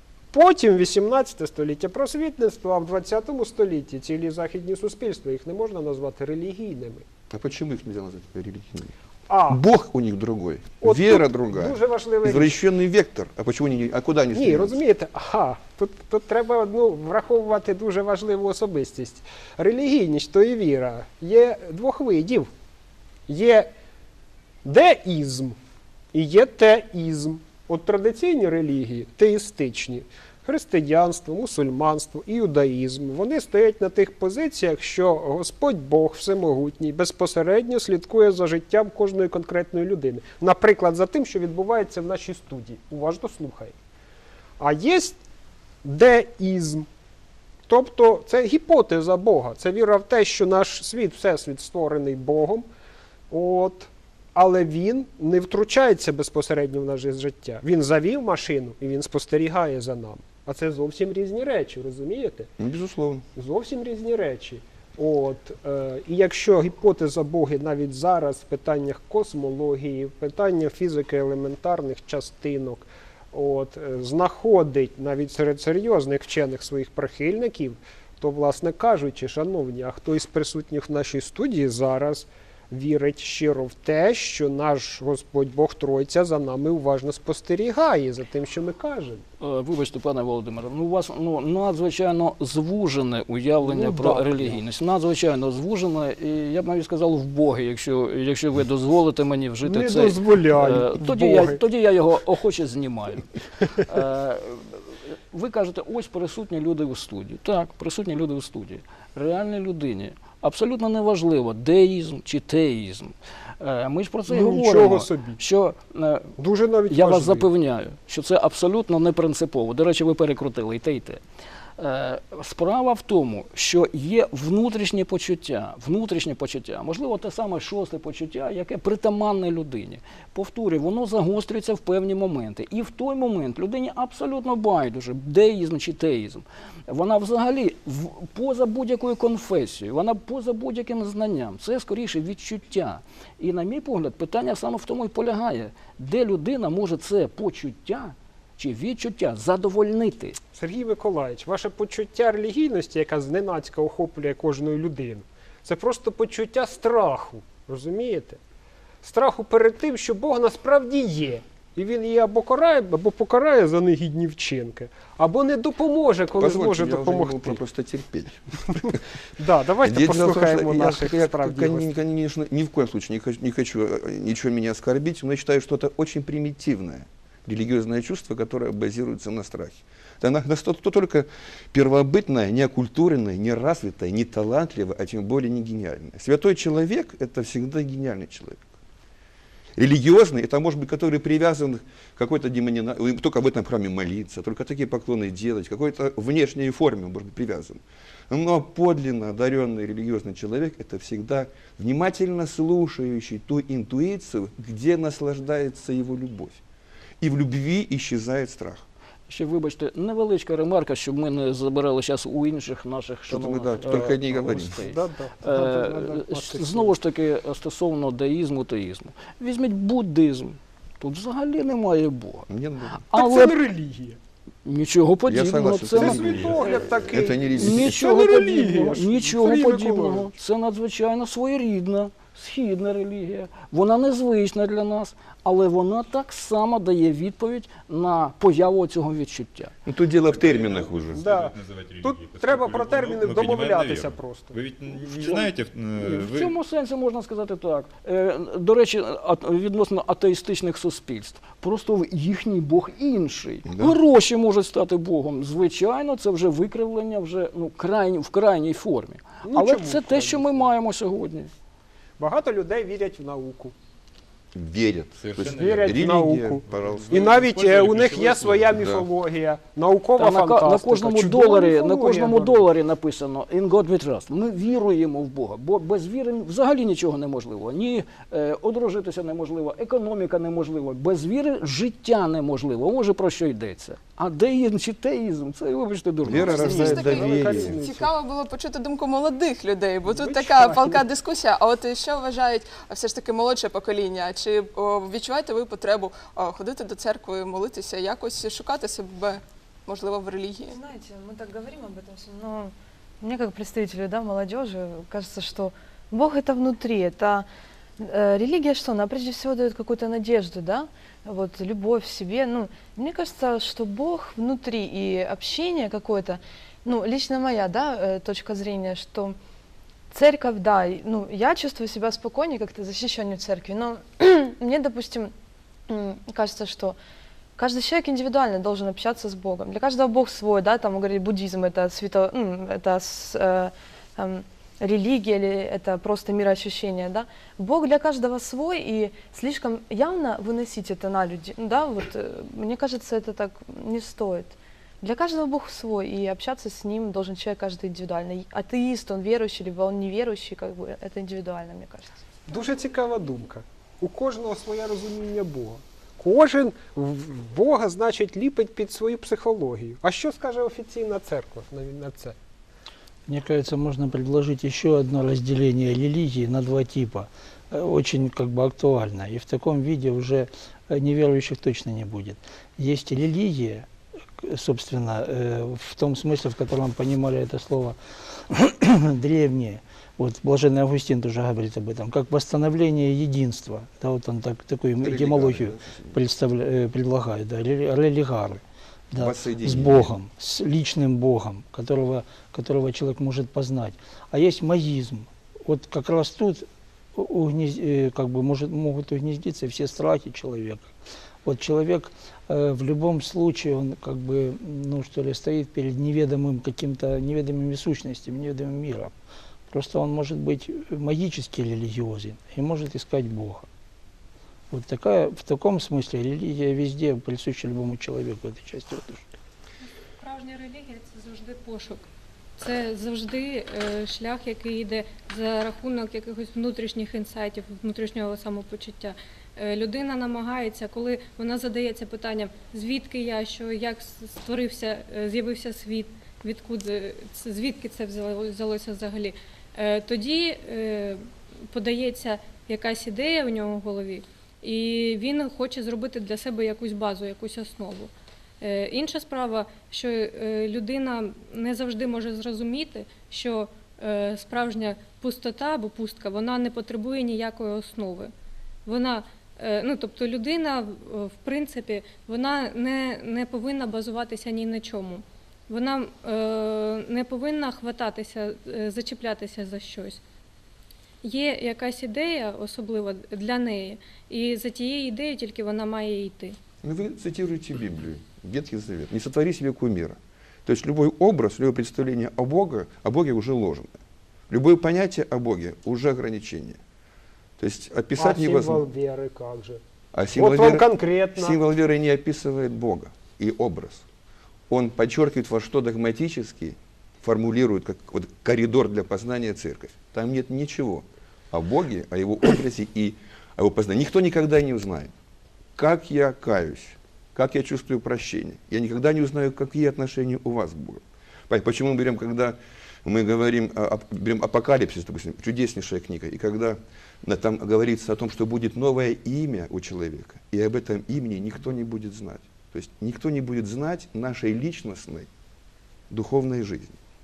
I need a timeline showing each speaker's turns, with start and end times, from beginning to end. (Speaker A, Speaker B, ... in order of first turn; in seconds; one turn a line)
Speaker A: 0.3-7.0
Speaker B: 7.3-8.9
Speaker A: 9.3-9.6
Speaker B: 9.5-14.8
Speaker A: 10.8-12.6
Speaker A: 14.3-22.5
Speaker A: 23.3-23.7
Speaker A: 24.6-25.6
Speaker A: 26.1-43.8
Speaker A: 44.6-45.2
Speaker A: 45.8-46.9
Speaker A: 47.7-52.7
Speaker A: 53.3-62.5
Speaker B: 62.6-63.2
Speaker A: 63.4-89.2
Speaker C: 89.4-116.3
Speaker A: 93.7-94.5
Speaker A: 99.6-101.6
Speaker A: 114.3-115.4
Speaker A: 116.4-117.5
Speaker C: 116.9-121.2
Speaker C: 121.8-150.4
Speaker A: 150.5-158.4
Speaker A: 159.0-167.6
Speaker B: 166.3-169.0
Speaker A: 169.4-171.9
Speaker B: 169.8-188.7
Speaker B: 189.8-206.6
Speaker B: 207.2-208.8
Speaker C: 209.3-222.5
Speaker B: 213.3-214.7
Speaker A: 214.6-217.0
Speaker B: 222.5-223.0
Speaker C: 223.1-223.6
Speaker A: 223.2-224.2
Speaker C: 224.7-226.6
Speaker B: 225.3-228.0
Speaker A: 225.9-230.3
Speaker C: 227.5-239.7
Speaker B: 239.9-241.2
Speaker D: 240.3-246.5
Speaker A: 241.2-244.6
Speaker C: 245.1-261.5
Speaker B: 253.7-254.0
Speaker A: 259.4-260.7
Speaker A: 262.2-263.7
Speaker B: 264.5-267.2
Speaker D: 265.2-266.1
Speaker A: 265.4-272.7
Speaker D: 266.7-268.8
Speaker B: 268.8-269.1
Speaker C: 270.2-286.7
Speaker B: 286.2-287.8
Speaker E: 286.4-300.8
Speaker A: 286.4-288.1
Speaker A: 290.1-291.0
Speaker F: 300.7-307.5
Speaker F: 308.0-319.4
Speaker F: 320.1-325.3
Speaker F: 325.9-327.0
Speaker F: 327.6-352.3
Speaker A: 352.5-362.4
Speaker G: 363.3-373.9
Speaker G: 374.4-400.9
Speaker B: 385.0-386.2
Speaker B: 389.2-390.1
Speaker G: 401.4-409.1
Speaker G: 409.7-413.7
Speaker G: 414.7-419.2
Speaker H: 420.2-422.0
Speaker H: 422.6-458.3
Speaker H: 458.9-470.2
Speaker H: 471.2-476.6
Speaker B: 476.8-486.8
Speaker B: 487.6-488.9
Speaker A: 488.2-489.8
Speaker B: 490.1-494.1
Speaker A: 490.3-491.6
Speaker B: 494.7-505.1
Speaker B: 505.8-525.3
Speaker B: 526.1-527.0